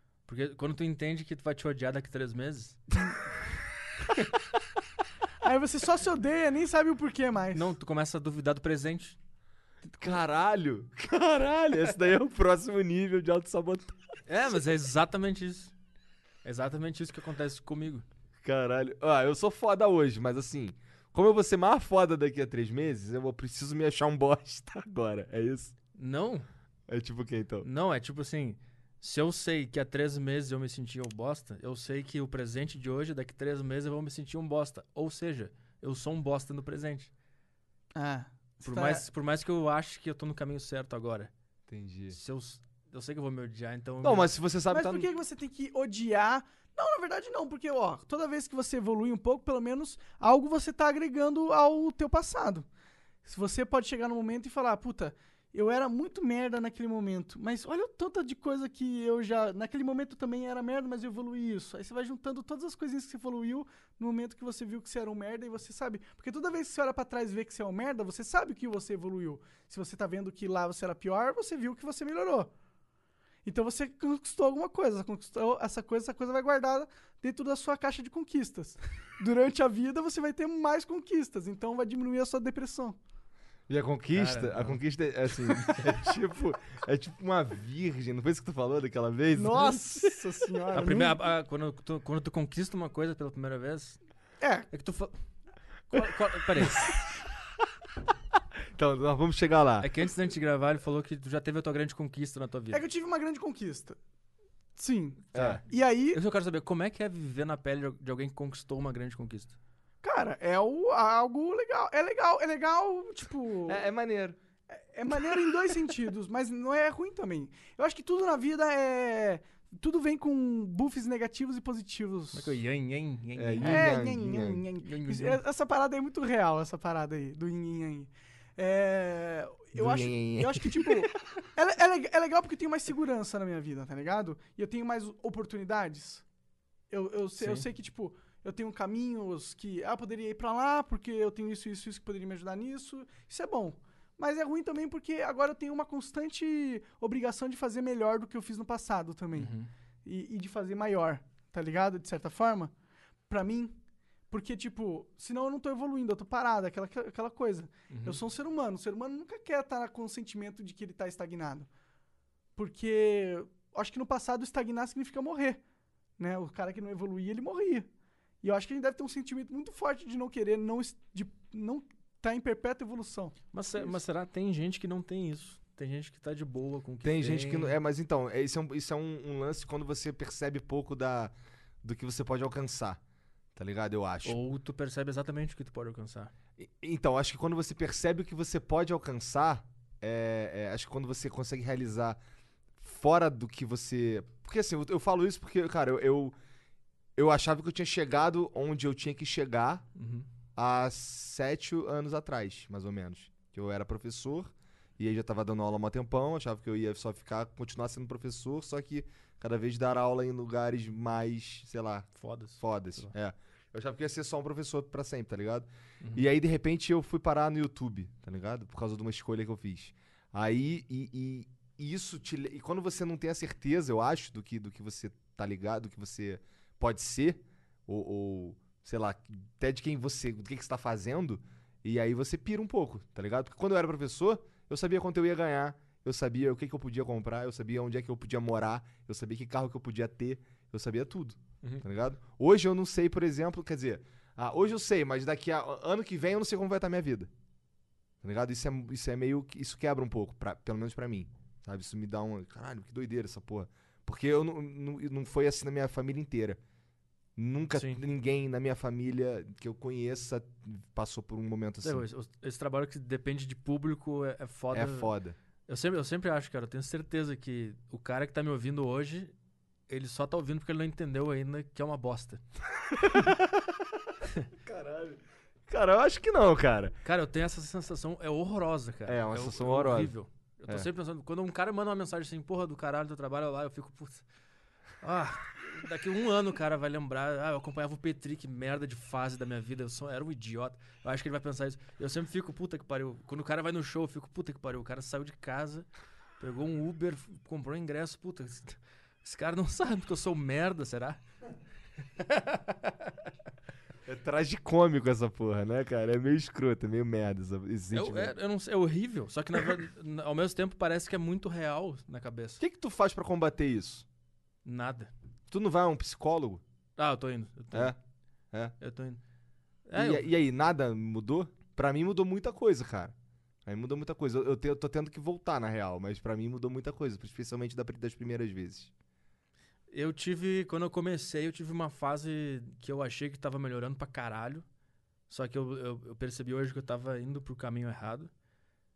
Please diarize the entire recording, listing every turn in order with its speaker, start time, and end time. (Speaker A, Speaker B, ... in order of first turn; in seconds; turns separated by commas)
Speaker A: 0.2-2.8, Speaker B: 5.4-7.7, Speaker A: 7.5-9.2, Speaker C: 9.8-14.0, Speaker A: 14.3-15.7, Speaker A: 16.4-18.0, Speaker C: 18.4-25.7, Speaker A: 25.9-26.5, Speaker C: 26.9-27.7, Speaker A: 27.6-37.1, Speaker B: 37.9-39.0, Speaker A: 38.6-41.3, Speaker C: 41.7-42.2, Speaker A: 42.1-44.3, Speaker C: 44.0-45.1, Speaker B: 44.7-52.7, Speaker B: 53.2-72.5, Speaker B: 73.4-83.0, Speaker C: 83.7-89.8, Speaker A: 84.1-84.8, Speaker A: 85.5-85.8, Speaker B: 89.3-91.2, Speaker A: 90.7-94.0, Speaker B: 94.4-94.7, Speaker A: 94.7-95.1, Speaker A: 95.9-96.9, Speaker C: 98.7-99.9, Speaker A: 99.8-102.8, Speaker B: 102.7-104.0, Speaker B: 104.8-106.2, Speaker C: 105.3-105.6, Speaker A: 105.3-105.6, Speaker A: 106.1-109.5, Speaker B: 110.0-113.8, Speaker C: 113.7-114.4, Speaker B: 114.7-122.6, Speaker A: 122.3-124.0, Speaker C: 123.3-124.6, Speaker B: 123.6-136.2, Speaker A: 124.8-125.4, Speaker C: 129.7-130.9, Speaker B: 136.9-149.5, Speaker A: 137.4-137.7, Speaker A: 149.3-149.7, Speaker B: 150.0-152.7, Speaker B: 153.3-153.8, Speaker B: 154.3-161.7, Speaker A: 157.9-158.2, Speaker B: 162.6-165.6, Speaker B: 166.2-167.9, Speaker B: 168.4-174.0, Speaker A: 173.5-177.8, Speaker C: 177.0-183.0, Speaker C: 183.6-184.4, Speaker A: 184.2-186.3, Speaker C: 186.6-192.2, Speaker C: 192.8-196.3, Speaker C: 197.2-199.8, Speaker A: 199.9-200.2, Speaker C: 200.6-212.1, Speaker A: 212.2-213.1, Speaker C: 212.6-247.3, Speaker A: 216.0-216.2, Speaker C: 248.2-256.6, Speaker C: 257.4-262.0, Speaker A: 257.7-258.0, Speaker A: 261.8-265.1, Speaker C: 264.7-265.4, Speaker A: 265.7-269.3, Speaker A: 269.9-272.4, Speaker C: 272.9-273.7, Speaker C: 274.6-276.9, Speaker A: 277.0-284.2, Speaker C: 279.1-280.1, Speaker A: 285.0-295.9, Speaker A: 296.4-301.2, Speaker A: 302.2-303.1, Speaker C: 304.1-308.3, Speaker A: 307.9-312.6, Speaker C: 312.6-314.1, Speaker A: 314.6-315.1, Speaker C: 315.5-316.6, Speaker A: 317.0-317.9, Speaker C: 317.7-318.0, Speaker A: 318.8-319.2, Speaker A: 319.9-320.3, Speaker C: 319.9-323.1, Speaker C: 323.6-328.9, Speaker A: 329.9-334.6, Speaker A: 335.3-338.3